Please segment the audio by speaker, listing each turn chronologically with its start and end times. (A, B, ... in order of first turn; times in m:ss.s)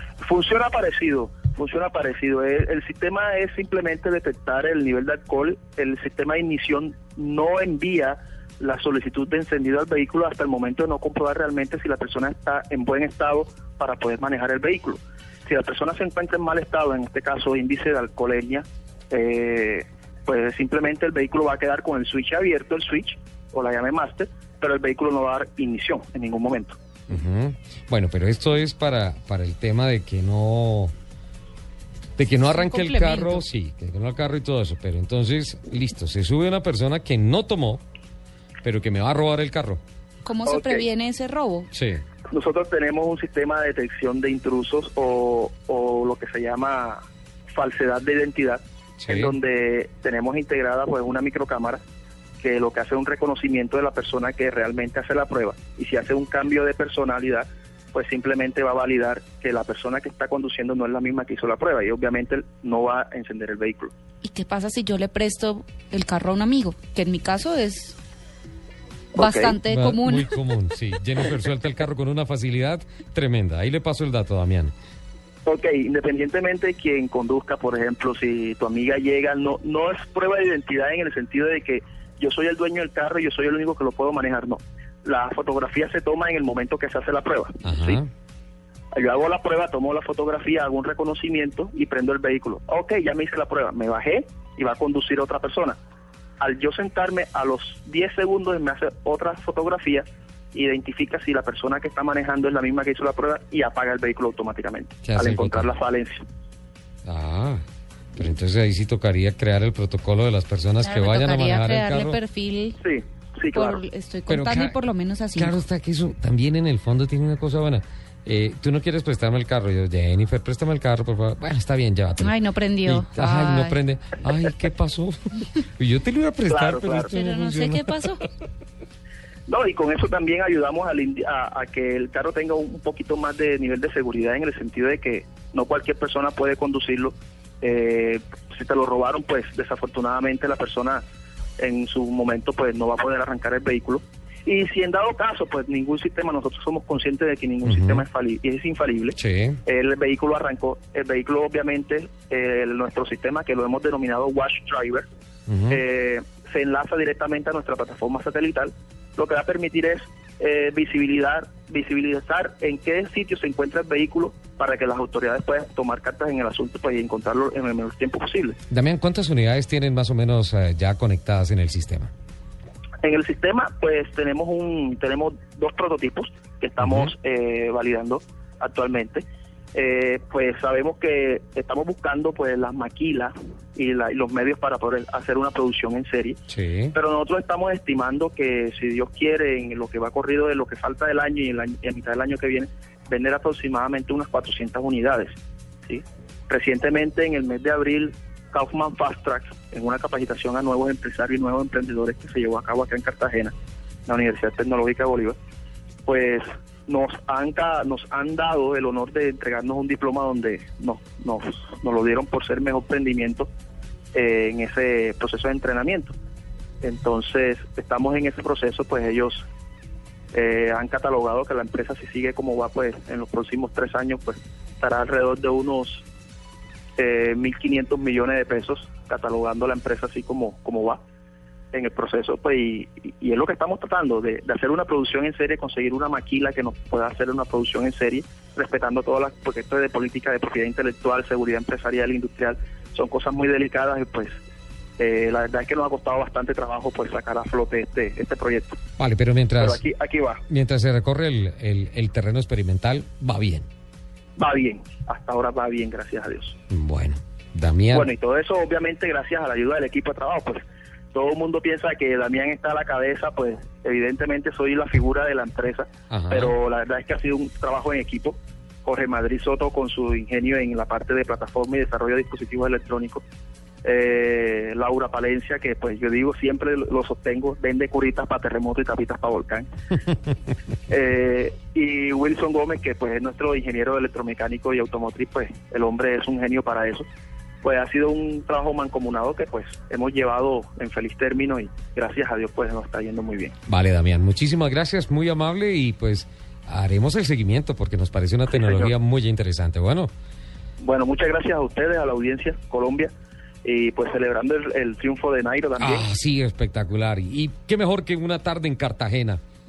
0:00.2-0:26.8 A
0:27.1-0:30.9 B
0:32.2-0:37.8 B
0:32.4-0:33.4 C
0:38.6-0:39.8 B
0:40.2-0:41.7 C
0:40.4-0:40.9 A
0:41.7-0:42.0 B
0:42.3-0:51.8 A
0:49.0-0:49.4 B
0:52.4-1:03.9 A
1:04.2-1:08.0 C
1:09.1-1:09.6 A
1:09.1-1:10.3 C
1:09.6-1:14.7 B
1:15.4-1:28.0 A
1:27.6-1:28.1 B
1:28.9-1:35.8 A
1:36.4-1:46.2 A
1:45.0-1:45.7 B
1:47.0-1:47.6 B
1:48.1-1:52.2 B
1:50.8-1:52.8 C
1:52.8-1:53.8 A
1:53.5-1:55.6 C
1:54.3-1:54.8 B
1:55.3-2:08.2 B
2:02.2-2:03.8 C
2:06.5-2:07.1 A
2:07.1-2:08.2 C
2:09.5-2:21.0 A
2:21.6-2:35.0 A
2:27.6-2:28.0 B
2:29.2-2:29.6 B
2:35.5-2:35.8 B
2:35.7-2:48.6 A
2:48.7-2:52.1 B
2:53.0-3:23.5 A
2:56.8-2:57.1 B
3:06.5-3:06.9 B
3:24.1-3:25.4 A
3:26.1-3:33.5 A
3:34.1-3:36.1 A
3:36.8-3:39.4 A
3:40.3-3:46.0 A
3:47.0-3:51.0 A
3:51.7-4:04.3 A
4:05.0-4:08.8 A
4:09.0-4:09.8 B
4:09.6-4:10.4 A
4:10.5-4:13.7 B
4:14.4-4:16.6 A
4:16.7-4:18.1 B
4:17.9-4:33.2 A
4:26.1-4:26.5 B
4:33.8-4:39.7 A
4:40.9-4:47.0 A
4:47.6-4:53.5 A
4:53.7-5:00.1 B
4:58.5-4:58.9 A
5:00.8-5:03.1 A
5:03.6-5:06.1 A
5:05.8-5:09.4 B